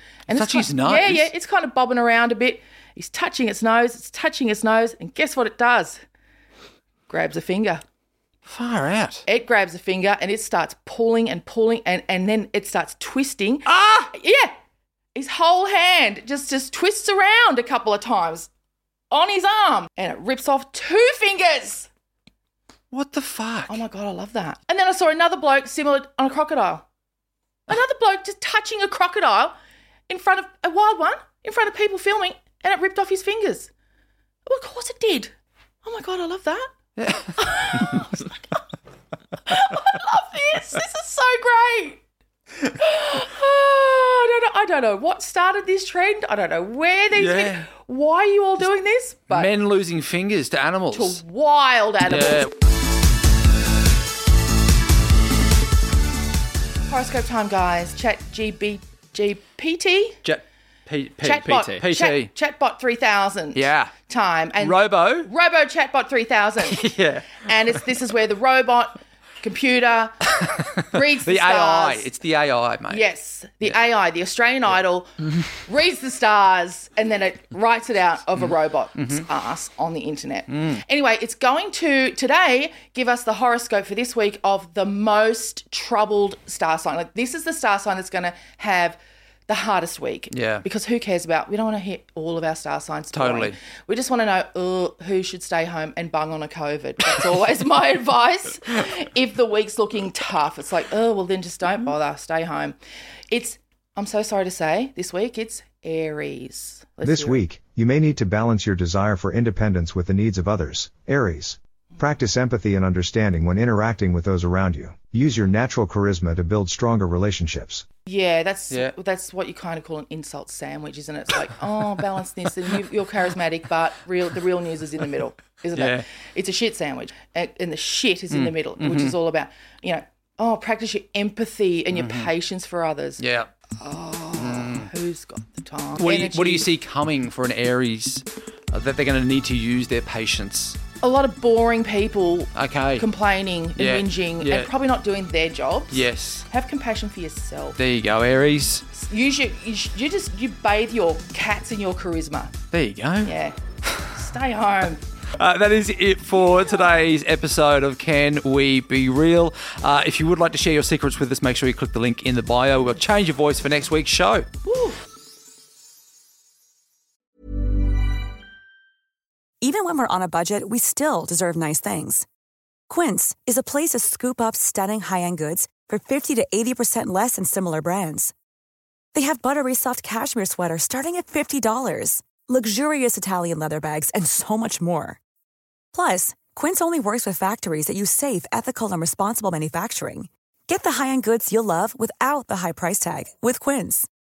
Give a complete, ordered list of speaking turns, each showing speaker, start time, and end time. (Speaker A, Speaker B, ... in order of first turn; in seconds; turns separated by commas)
Speaker A: 0.3-6.0, Speaker B: 0.3-1.3, Speaker A: 7.1-7.8, Speaker B: 8.5-9.2, Speaker A: 9.3-14.5, Speaker B: 13.7-14.1, Speaker A: 15.1-18.5, Speaker A: 19.1-21.9, Speaker B: 22.9-23.8, Speaker A: 23.7-26.9, Speaker A: 27.7-29.6, Speaker A: 30.1-33.7, Speaker A: 34.5-35.3, Speaker A: 35.8-36.7, Speaker B: 37.0-38.0, Speaker A: 37.3-38.6, Speaker A: 39.4-42.0, Speaker A: 42.6-49.5, Speaker B: 47.1-47.7, Speaker B: 49.3-51.2, Speaker A: 50.9-52.5, Speaker B: 52.1-52.5, Speaker A: 56.9-60.2, Speaker B: 60.2-62.3, Speaker A: 61.2-72.1, Speaker B: 63.5-63.9, Speaker B: 64.6-65.3, Speaker B: 66.6-67.8, Speaker B: 70.4-73.1, Speaker A: 72.9-75.1, Speaker A: 75.7-102.8, Speaker B: 78.4-79.2, Speaker B: 80.5-80.8, Speaker B: 90.3-90.6, Speaker B: 93.1-93.6, Speaker A: 103.3-107.4, Speaker C: 107.0-117.9, Speaker A: 118.1-133.2, Speaker B: 125.8-126.0, Speaker B: 128.3-129.1, Speaker B: 131.9-132.3, Speaker B: 133.2-133.5, Speaker A: 133.8-136.7, Speaker B: 134.4-134.9, Speaker B: 136.0-140.8, Speaker A: 141.0-147.8, Speaker B: 142.5-143.1, Speaker B: 143.8-144.7, Speaker B: 145.9-146.5, Speaker B: 147.8-148.8, Speaker A: 148.9-152.5, Speaker B: 152.7-153.3, Speaker A: 153.2-153.6, Speaker A: 154.1-155.0, Speaker B: 155.4-164.5, Speaker A: 164.7-165.0, Speaker D: 169.6-172.2, Speaker D: 172.9-178.3, Speaker D: 179.1-185.2, Speaker D: 185.9-194.1